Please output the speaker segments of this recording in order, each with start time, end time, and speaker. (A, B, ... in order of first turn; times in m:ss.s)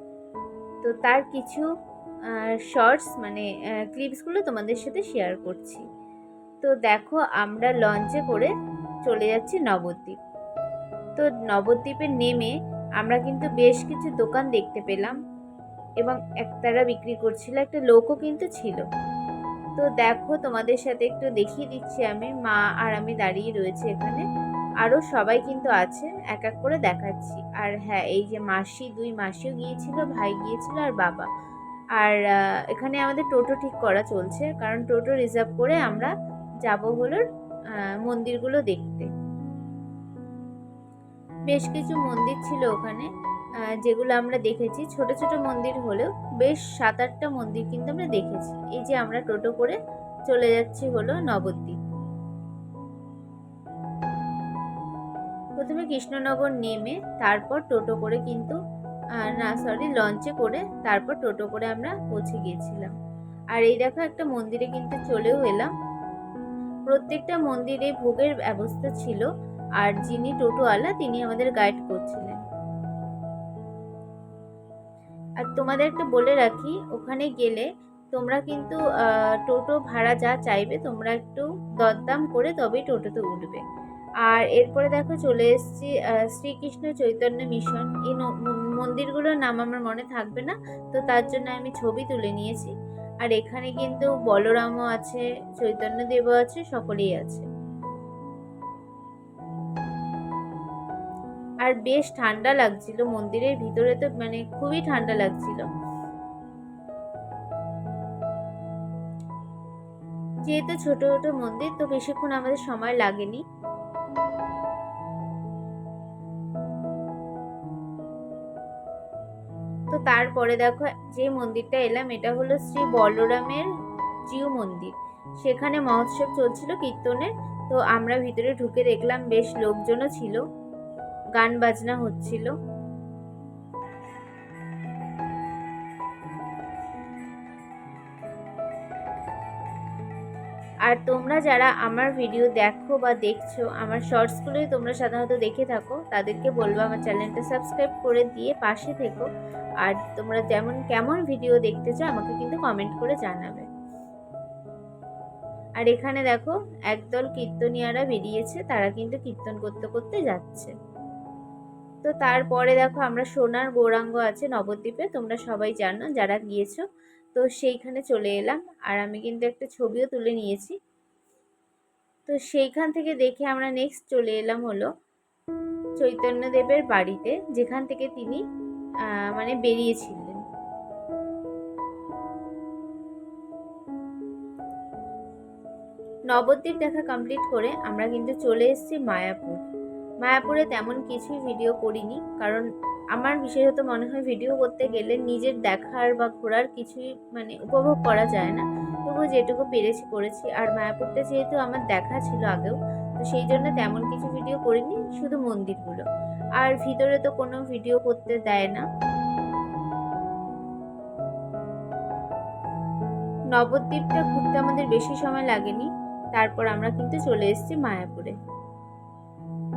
0:00.8-0:01.7 A
0:02.3-0:05.8 A
0:06.6-0:08.5 A
0:09.0-0:10.2 A
0:11.2-0:15.2 A
0:16.0-0:18.8 A
0:19.8-0:24.2 A
0:24.8-0:31.3 A
0:32.7-0:36.1 A
0:36.6-0:37.2 A
0:38.0-0:39.1 A
0:41.5-0:43.1 A
0:43.8-0:51.8 A
0:55.6-0:58.6 A
0:59.2-1:02.9 A
1:03.5-1:05.7 A
1:06.9-1:09.3 A
1:09.8-1:12.4 A
1:15.4-1:23.6 A
1:24.2-1:37.4 A
1:41.6-1:45.6 A
1:50.5-1:53.4 A
1:59.9-2:03.7 A
2:04.3-2:10.4 A
2:11.4-2:12.5 A
2:20.9-2:29.3 A
2:29.8-2:33.6 A
2:35.8-2:40.7 A
2:42.0-2:46.8 A
2:47.3-2:50.7 A
2:52.3-2:54.9 A
2:56.0-2:58.4 A
2:59.3-3:00.4 A
3:06.3-3:09.6 A
3:10.2-3:26.0 A
3:26.6-3:28.8 A
3:33.5-3:38.3 A